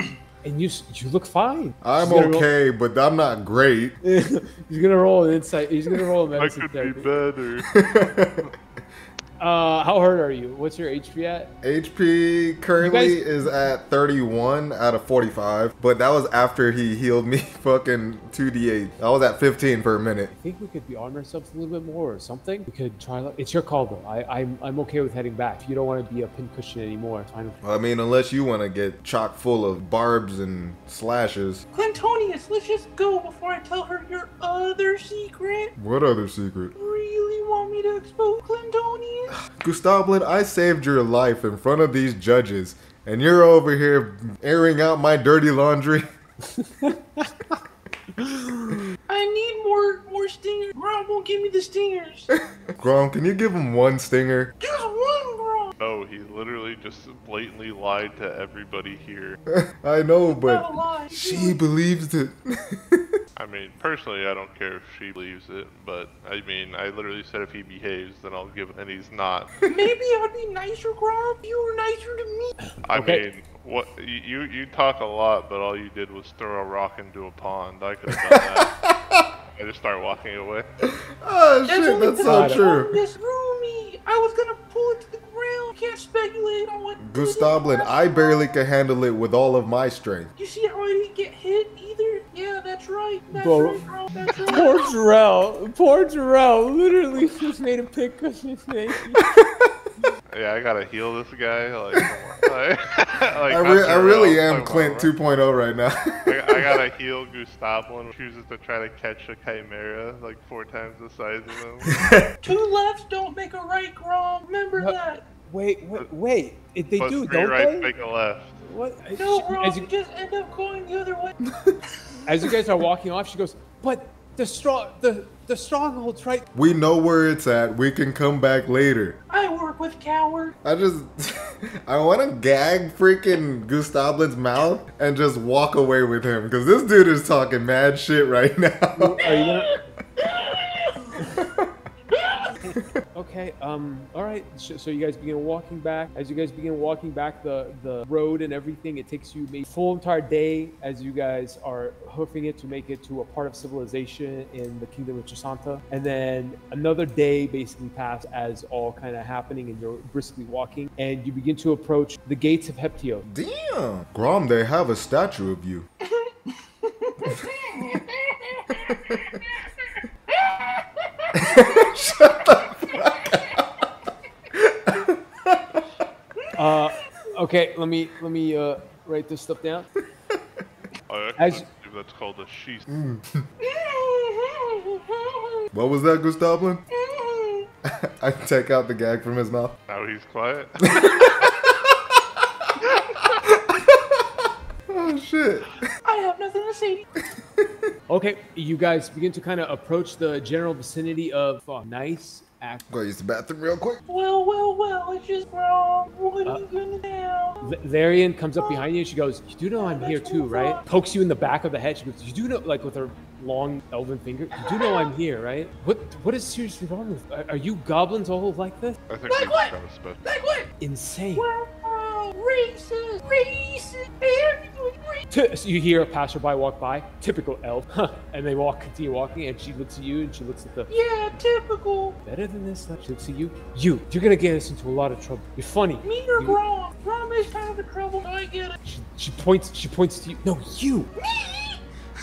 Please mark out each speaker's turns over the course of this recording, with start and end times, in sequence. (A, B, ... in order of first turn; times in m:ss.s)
0:00.4-0:02.5 A
0:01.8-0:04.0 B
0:04.0-0:07.1 A
0:06.3-0:07.7 C
0:07.6-0:08.5 B
0:09.4-0:11.5 A
0:11.6-0:20.3 B
0:12.8-0:13.2 A
0:20.3-0:27.6 A
0:27.6-0:31.6 B
0:31.7-0:35.7 D
0:35.8-0:36.7 B
0:36.8-0:39.4 D
0:39.3-0:46.1 B
0:46.4-0:47.4 A
0:48.2-0:48.9 A
0:49.1-0:52.3 D
0:52.3-0:54.5 B
0:54.6-0:55.7 D
0:55.8-0:59.4 C
0:59.5-1:03.2 B
1:00.3-1:01.6 D
1:03.4-1:09.6 C
1:09.7-1:12.5 D
1:12.6-1:13.2 A
1:12.8-1:18.8 C
1:18.1-1:19.3 B
1:19.6-1:20.7 C
1:20.8-1:23.0 B
1:21.7-1:28.6 D
1:22.2-1:22.7 A
1:27.0-1:30.3 B
1:30.4-1:34.9 D
1:33.3-1:33.8 A
1:34.5-1:39.2 A
1:39.2-1:39.8 B
1:40.3-1:45.1 C
1:43.5-1:46.8 B
1:46.3-1:52.1 C
1:51.9-1:52.4 B
1:52.4-1:55.2 D
1:54.8-1:57.9 A
1:57.0-1:58.6 C
1:58.6-1:59.9 A
1:59.2-2:01.4 D
2:01.5-2:01.8 B
2:02.2-2:06.4 A
2:06.5-2:09.2 B
2:09.3-2:10.6 D
2:10.6-2:19.4 B
2:19.0-2:19.7 A
2:19.2-2:21.0 D
2:21.2-2:21.7 B
2:22.1-2:22.5 D
2:23.1-2:43.2 A
2:43.2-2:45.9 B
2:46.0-2:52.2 D
2:48.8-2:49.4 B
2:51.4-2:53.6 B
2:54.6-2:55.8 B
2:56.5-2:59.9 A
3:01.1-3:02.9 C
3:01.4-3:01.7 A
3:02.9-3:03.5 B
3:03.6-3:05.7 D
3:05.7-3:06.8 B
3:06.9-3:07.7 D
3:07.8-3:09.8 B
3:09.9-3:11.6 C
3:10.8-3:12.2 B
3:13.4-3:14.3 B
3:14.9-3:15.9 B
3:16.0-3:17.2 D
3:17.4-3:17.9 B
3:18.1-3:22.8 A
3:22.9-3:24.0 B
3:24.1-3:27.7 D
3:27.6-3:39.0 A
3:29.8-3:30.8 D
3:34.6-3:35.1 D
3:39.1-3:40.2 C
3:39.3-3:39.7 D
3:40.2-3:40.7 D
3:40.8-3:41.5 A
3:41.4-3:45.3 D
3:45.3-3:50.9 A
3:50.9-3:52.2 D
3:52.2-3:56.6 A
3:56.0-3:58.8 D
3:58.8-4:01.1 A
4:01.2-4:01.8 D